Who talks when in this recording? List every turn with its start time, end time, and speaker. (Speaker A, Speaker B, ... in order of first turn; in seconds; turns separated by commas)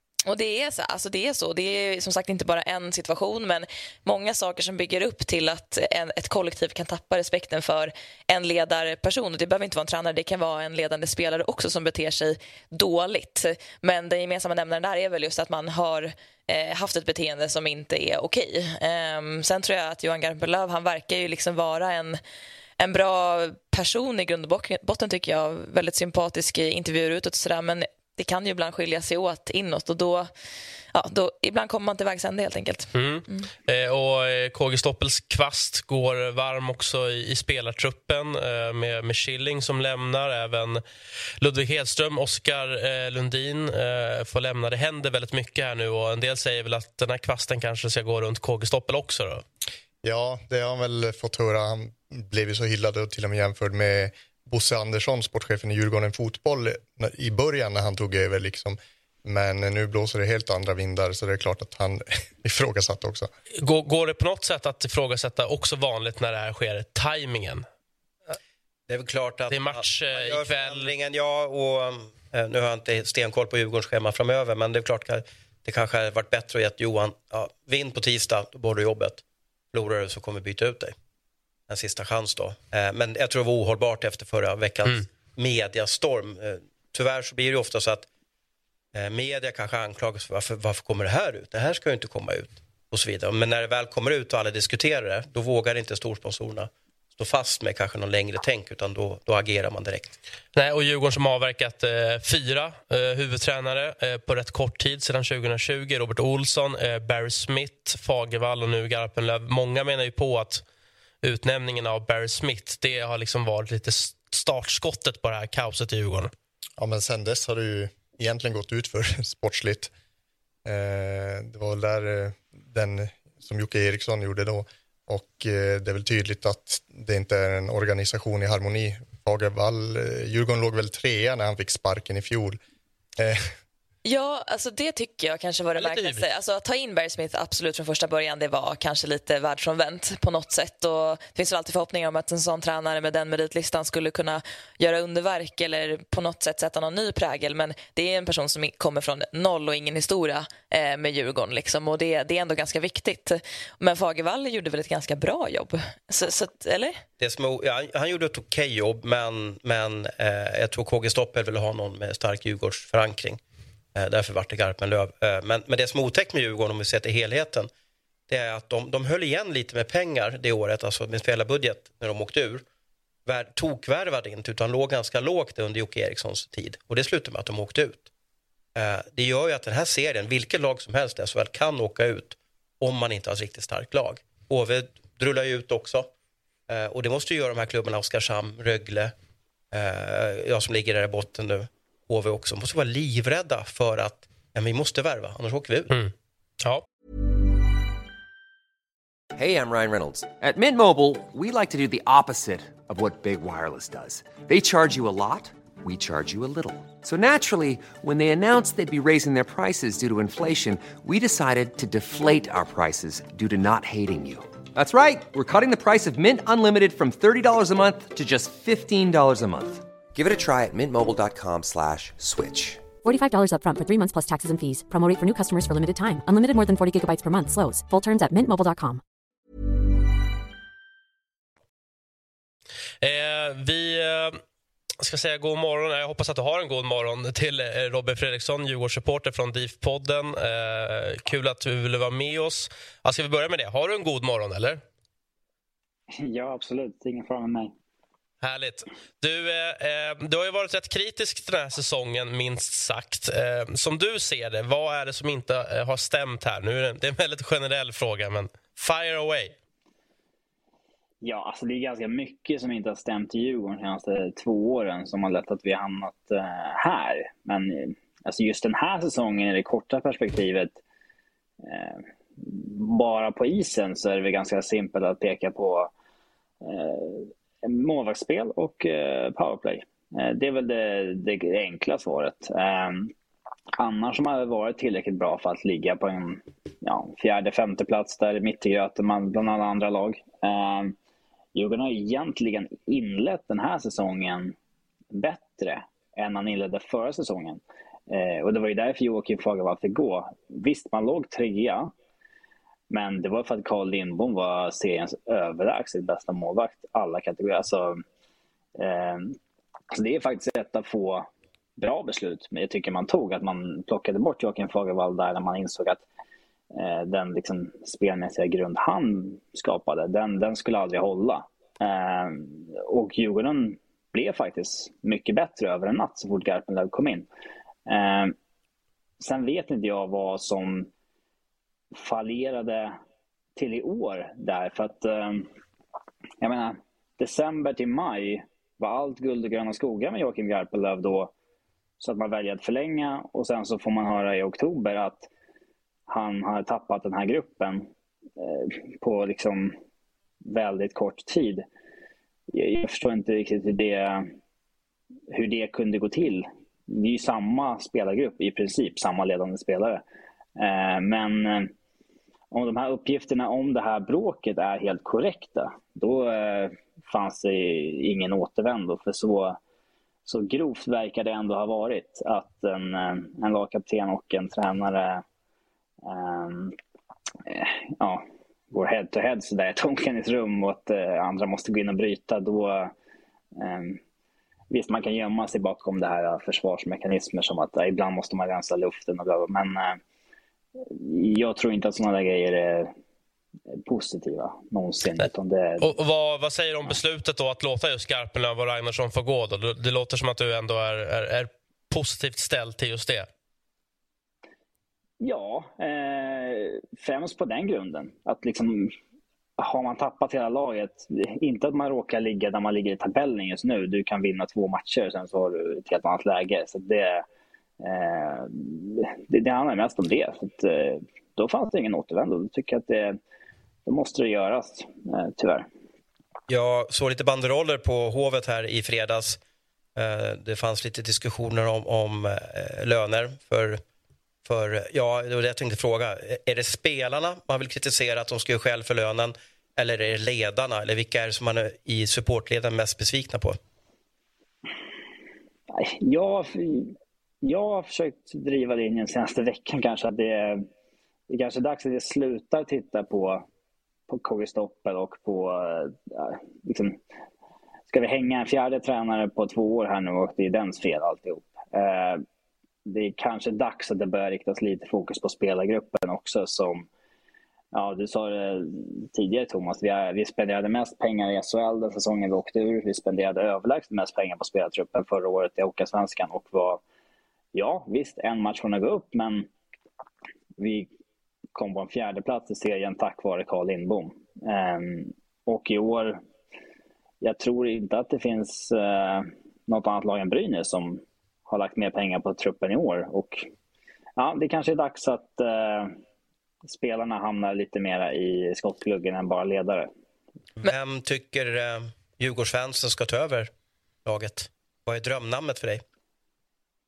Speaker A: 0.2-22.2, Speaker A: 22.8-30.3, Speaker A: 30.9-33.5, Speaker B: 32.9-40.8, Speaker B: 41.4-49.4, Speaker C: 50.0-63.3, Speaker B: 63.6-67.6, Speaker D: 68.9-80.9, Speaker B: 69.5-70.9, Speaker D: 81.7-88.1, Speaker D: 88.9-100.1, Speaker B: 100.5-110.6, Speaker B: 111.2-116.3, Speaker C: 116.8-119.9, Speaker C: 120.6-132.6, Speaker C: 133.2-133.5, Speaker A: 134.0-157.0, Speaker B: 135.8-136.3, Speaker D: 157.2-163.4, Speaker D: 163.9-167.7, Speaker D: 168.3-172.6, Speaker D: 173.2-178.1, Speaker D: 178.8-186.1, Speaker D: 186.7-189.1, Speaker D: 189.7-195.9, Speaker B: 195.9-196.8, Speaker E: 199.3-222.9, Speaker F: 223.0-229.0, Speaker B: 233.0-234.4, Speaker B: 235.0-244.8, Speaker G: 246.1-247.7, Speaker B: 248.4-259.6, Speaker G: 261.2-270.8, Speaker G: 271.6-275.9, Speaker G: 276.6-283.1, Speaker G: 283.8-290.9, Speaker G: 291.5-294.5, Speaker G: 295.1-301.9, Speaker G: 302.9-308.0, Speaker G: 308.8-309.4, Speaker G: 309.9-316.0, Speaker G: 316.7-327.3, Speaker G: 327.9-328.3, Speaker G: 329.2-330.9, Speaker G: 331.9-333.0, Speaker G: 333.6-335.5, Speaker G: 336.4-341.3, Speaker G: 342.0-345.3, Speaker G: 346.1-349.8, Speaker G: 350.4-351.6, Speaker G: 352.5-354.3, Speaker G: 355.3-360.0, Speaker G: 360.6-361.7, Speaker G: 362.5-369.6, Speaker G: 370.2-375.2, Speaker G: 376.0-376.8, Speaker G: 377.4-382.9, Speaker G: 383.6-384.0, Speaker G: 384.7-390.0, Speaker G: 390.8-392.9, Speaker G: 393.8-395.9, Speaker B: 395.8-403.3, Speaker G: 405.2-408.9, Speaker G: 409.6-417.2, Speaker G: 417.8-423.2, Speaker G: 423.9-425.7, Speaker D: 426.5-429.4, Speaker D: 429.9-433.8, Speaker D: 434.4-443.6, Speaker G: 445.7-450.7, Speaker G: 451.3-453.4, Speaker G: 454.1-457.0, Speaker G: 457.9-462.2, Speaker G: 462.9-466.9, Speaker G: 467.7-476.8, Speaker G: 477.5-479.5, Speaker G: 480.6-480.9, Speaker G: 481.5-486.2, Speaker G: 487.2-493.5, Speaker G: 494.2-496.0, Speaker G: 496.6-499.9, Speaker D: 500.6-503.5, Speaker D: 504.0-505.8